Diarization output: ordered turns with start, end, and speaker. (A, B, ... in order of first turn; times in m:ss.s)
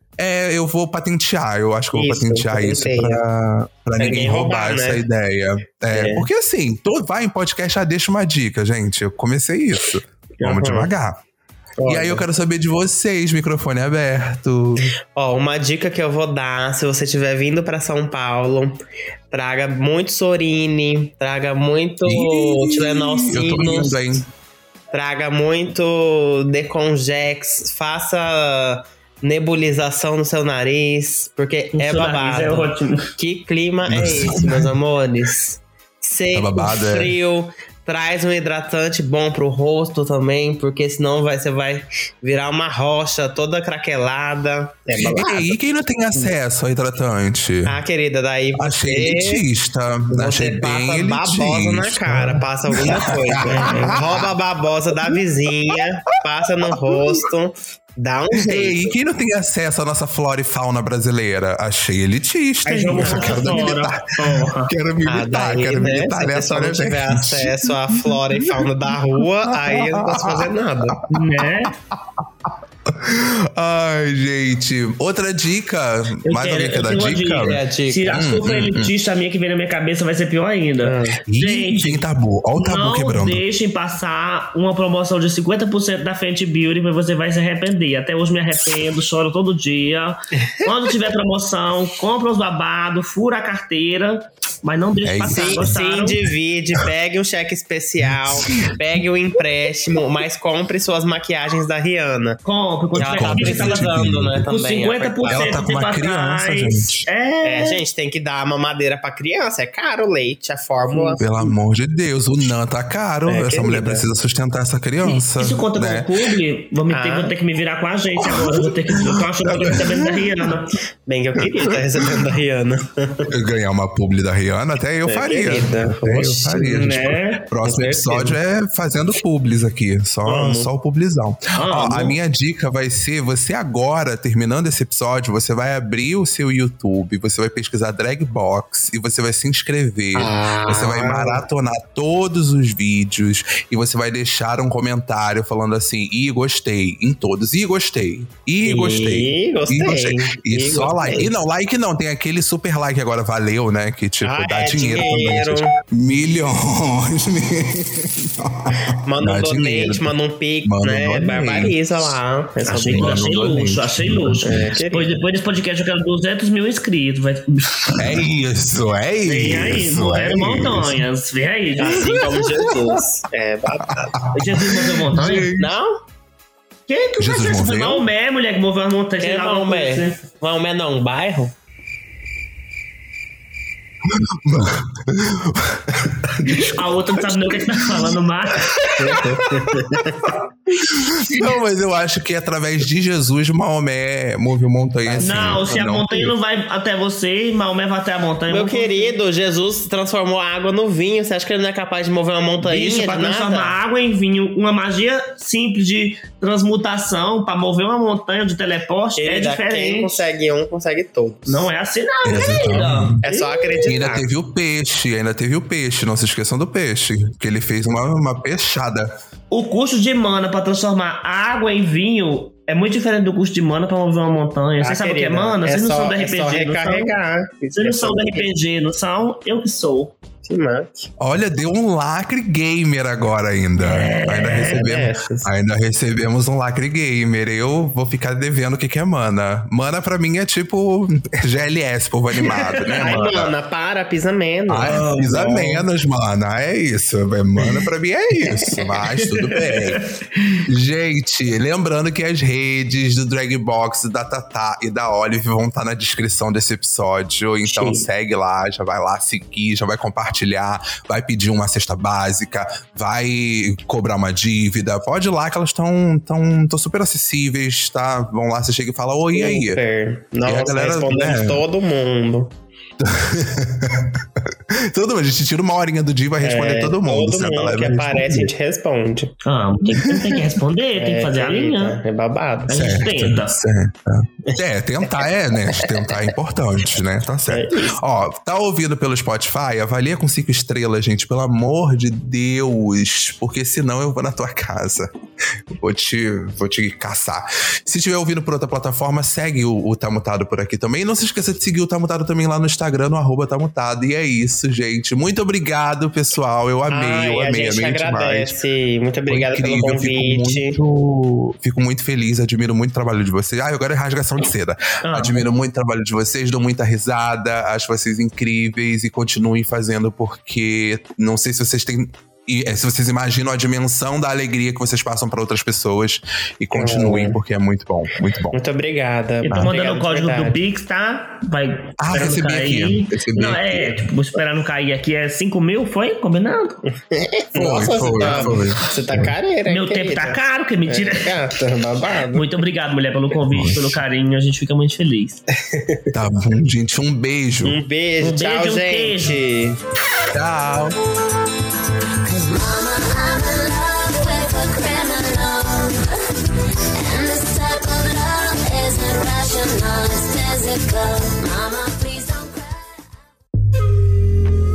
0:00.2-0:11.2 A
0:01.9-0:03.2 B
0:04.0-0:05.0 B
0:05.9-0:06.3 B
0:10.4-0:10.9 B
0:11.8-0:12.3 B
0:11.9-0:14.9 A
0:14.8-0:18.8 B
0:19.3-0:24.2 B
0:22.0-0:24.3 A
0:24.9-0:45.6 B
0:31.7-0:33.2 C
0:33.9-0:34.7 A
0:36.3-0:37.1 A
0:44.9-0:47.8 A
0:47.7-0:49.4 B
0:48.6-0:54.4 A
0:50.1-0:59.0 B
0:53.6-0:54.0 C
0:56.7-0:57.2 A
0:58.3-1:18.9 A
1:02.7-1:04.7 C
1:03.0-1:03.7 B
1:05.1-1:11.0 B
1:11.1-1:11.7 C
1:16.2-1:22.0 C
1:17.4-1:18.3 B
1:20.8-1:21.2 B
1:21.3-1:23.4 A
1:22.6-1:36.2 C
1:35.0-1:35.7 A
1:35.2-1:42.4 B
1:38.1-1:38.7 A
1:42.4-1:43.9 C
1:43.0-1:45.4 B
1:43.0-1:44.4 A
1:44.4-1:47.8 C
1:45.3-1:47.1 A
1:47.4-1:51.3 B
1:50.8-1:51.4 C
1:51.2-1:56.1 A
1:53.3-1:54.1 B
1:55.0-2:00.8 C
1:56.9-1:57.3 B
1:58.2-2:00.3 A
2:01.0-2:03.3 B
2:01.4-2:02.2 A
2:03.3-2:40.1 A
2:05.1-2:06.9 B
2:06.6-2:07.4 C
2:07.6-2:08.4 B
2:10.2-2:10.7 B
2:11.6-2:12.2 C
2:20.2-2:21.4 B
2:28.6-2:31.3 B
2:34.2-2:35.7 B
2:38.9-2:43.2 B
2:40.6-2:42.2 A
2:42.6-2:48.2 C
2:42.7-2:44.8 A
2:44.4-2:45.1 B
2:47.9-2:51.0 A
2:49.2-2:52.1 C
2:51.8-2:54.2 B
2:51.8-2:53.0 A
2:53.7-2:55.7 A
2:54.3-2:55.5 C
2:55.3-2:56.0 B
2:56.9-3:00.2 C
2:57.2-2:58.1 A
2:59.2-3:01.5 B
3:04.0-3:08.2 A
3:06.4-3:09.2 C
3:08.7-3:16.4 A
3:09.0-3:10.3 B
3:15.1-3:15.6 B
3:15.2-3:19.2 C
3:18.5-3:23.7 B
3:22.6-3:30.2 C
3:29.2-3:31.7 B
3:31.5-3:33.8 C
3:32.2-3:33.2 A
3:32.6-3:34.3 B
3:33.8-3:39.1 A
3:39.5-3:47.1 C
3:44.8-3:48.5 B
3:47.8-3:50.2 C
3:50.4-3:51.1 B
3:51.2-4:03.5 A
3:53.8-3:54.8 C
3:54.7-3:55.5 B
4:02.6-4:03.2 C
4:03.0-4:05.8 B
4:04.7-4:10.0 A
4:04.9-4:05.6 C
4:09.6-4:10.6 C
4:10.7-4:29.8 A
4:17.6-4:18.0 B
4:29.3-4:32.5 B
4:30.4-4:31.6 A
4:33.0-4:38.5 A
4:36.4-4:39.4 B
4:39.4-4:42.0 C
4:40.1-4:40.4 A
4:41.0-4:43.0 B
4:42.7-4:43.6 C
4:42.7-4:55.1 A
4:45.8-4:46.2 B
4:47.5-4:48.0 B
4:55.7-5:08.5 A
5:06.9-5:10.8 B
5:09.3-5:28.6 A
5:15.0-5:15.5 C
5:26.7-5:27.4 B
5:28.5-5:30.6 B
5:29.4-5:36.8 C
5:32.0-5:34.0 A
5:36.9-5:42.6 B
5:37.6-5:39.3 A
5:38.2-5:38.6 C
5:39.7-5:41.3 C
5:42.3-5:45.4 C
5:43.5-5:44.0 A
5:45.7-5:46.1 B
5:46.1-5:47.8 A
5:47.6-5:49.8 B
5:48.2-5:49.4 C
5:50.3-5:51.0 A
5:52.2-5:56.0 D
5:57.0-6:03.1 D